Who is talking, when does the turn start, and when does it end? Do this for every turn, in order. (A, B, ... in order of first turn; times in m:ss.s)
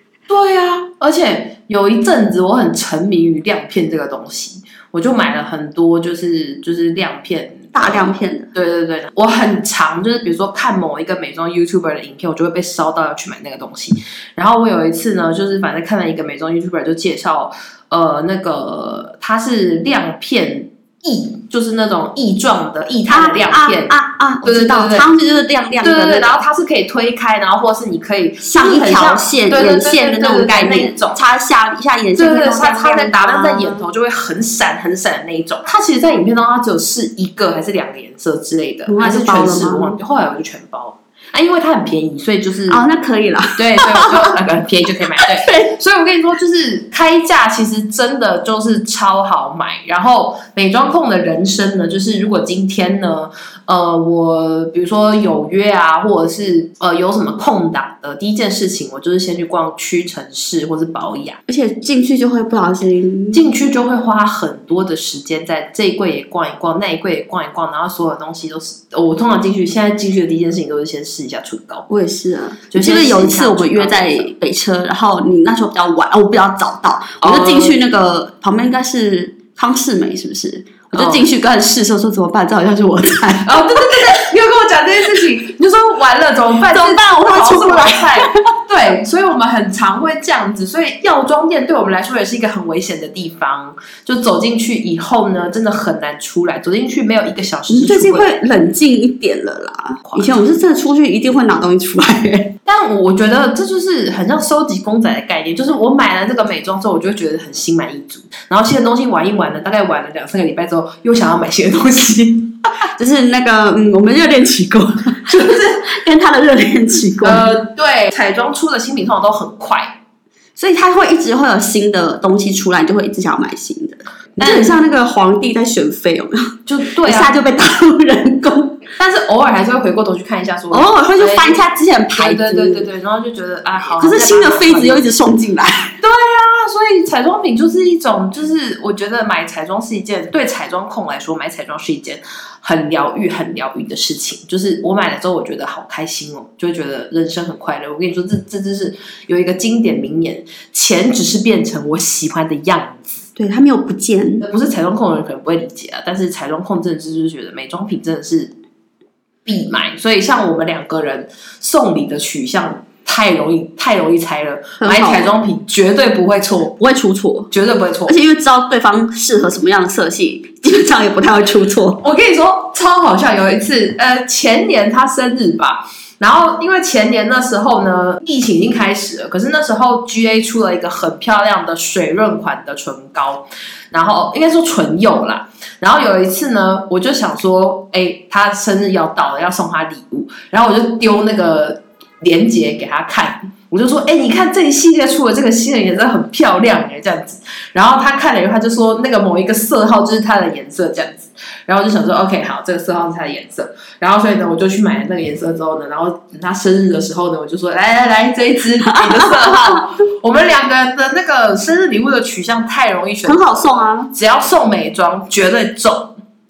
0:00.3-0:25.1 A
0:07.7-0:08.5 B
0:23.1-0:26.4 B
0:25.8-0:31.2 A
0:28.4-0:33.8 B
0:32.2-0:42.8 A
0:38.9-0:40.0 B
0:42.7-0:44.4 B
0:43.6-1:01.4 A
0:45.1-0:45.7 B
1:01.5-1:03.4 B
1:03.3-1:11.9 A
1:11.9-1:24.2 B
1:12.7-1:14.3 A
1:17.2-1:17.8 A
1:20.9-1:21.3 A
1:23.4-1:38.4 A
1:26.7-1:28.5 B
1:37.7-1:42.6 B
1:40.0-1:40.6 A
1:42.6-1:52.6 A
1:53.0-1:57.6 B
1:55.3-1:55.8 A
1:57.2-2:00.0 A
2:00.6-2:08.8 B
2:04.4-2:04.7 A
2:06.7-2:07.4 A
2:09.0-2:11.6 A
2:10.7-2:12.8 B
2:12.2-2:15.1 A
2:14.0-2:15.9 B
2:16.0-2:33.2 A
2:33.4-2:34.4 B
2:34.4-2:38.5 A
2:39.4-2:46.8 A
2:44.8-2:45.3 B
2:46.8-2:47.5 B
2:47.5-2:48.1 A
2:48.0-2:52.0 B
2:52.0-3:36.1 A
3:28.8-3:29.8 B
3:33.2-3:34.1 B